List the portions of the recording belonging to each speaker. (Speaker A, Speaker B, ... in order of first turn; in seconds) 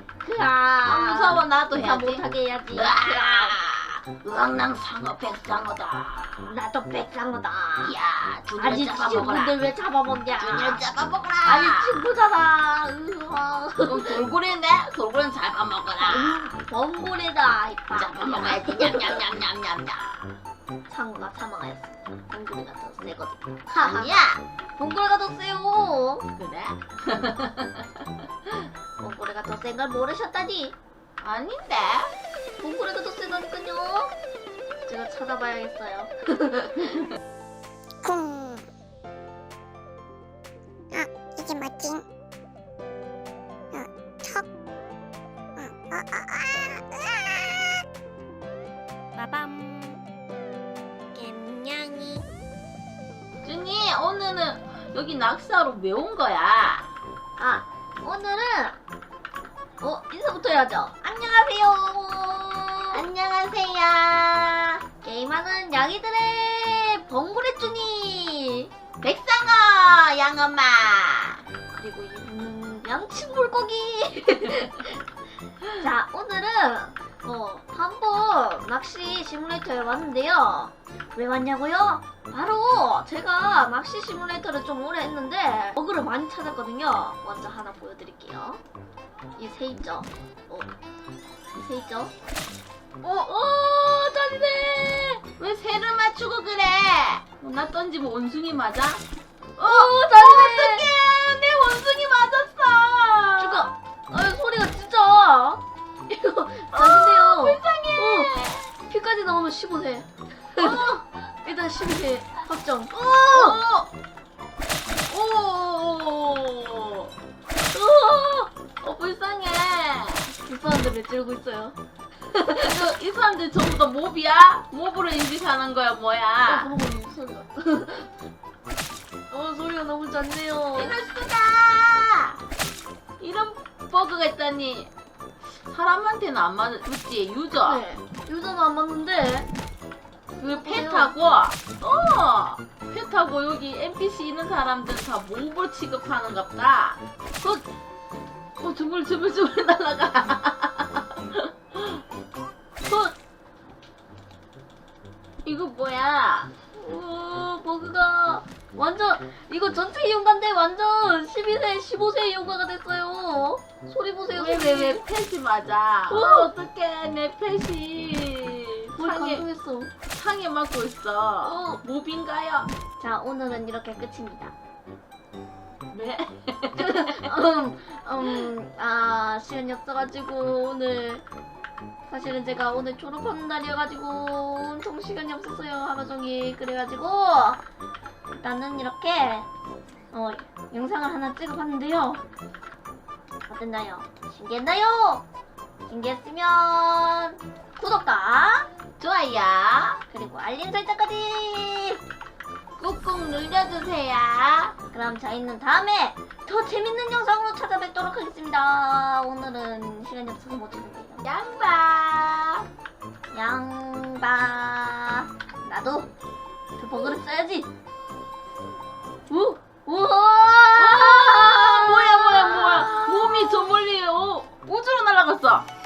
Speaker A: 0.2-3.6, 6.4-8.0, 8.6-10.8, 11.4-14.2, 16.0-19.2, 20.9-24.2, 24.8-26.3, 29.0-30.8, 32.6-34.1, 34.9-37.1, 49.2-49.9, 51.1-52.2, 57.4-58.8, 59.8-63.1, 65.0-68.7, 71.7-75.0, 75.8-88.6, 89.4-90.7, 91.5-92.1, 93.0-95.2, 99.6-100.9, 103.4-113.6, 117.7-118.5, 120.4-121.8, 122.3-122.9, 126.5-128.1, 129.3-131.0, 137.6-139.5, 140.4-141.2, 152.9-153.1, 156.8-165.0, 166.1-166.6, 169.0-169.9, 171.4-171.8, 173.0-174.5, 176.8-181.2, 182.1-187.6, 188.4-189.5, 190.1-192.2, 193.5-195.2, 195.9-198.7, 200.1-202.0, 204.9-211.3, 213.3-216.1, 216.8-217.7, 219.3-223.7
Speaker B: 0.9-2.2, 2.7-6.5, 7.8-9.5, 10.4-11.9, 13.8-16.5, 17.9-20.2, 23.8-24.4, 26.4-27.9, 31.2-32.1, 53.4-56.9, 63.0-64.8, 69.0-71.4, 95.4-99.0, 99.6-103.6, 106.7-108.6, 110.6-111.0, 113.3-113.9, 115.1-117.1, 118.8-120.3, 122.7-126.7, 130.8-132.4, 133.2-134.9, 135.5-137.8, 140.4-147.6, 148.6-152.0, 155.4-156.5, 164.4-169.5, 170.1-172.7, 175.9-177.3, 199.0-200.0, 202.8-204.8, 211.2-212.7, 220.8-225.7
Speaker C: 38.0-38.7, 40.9-42.0, 43.7-44.5, 45.6-47.7, 52.0-52.2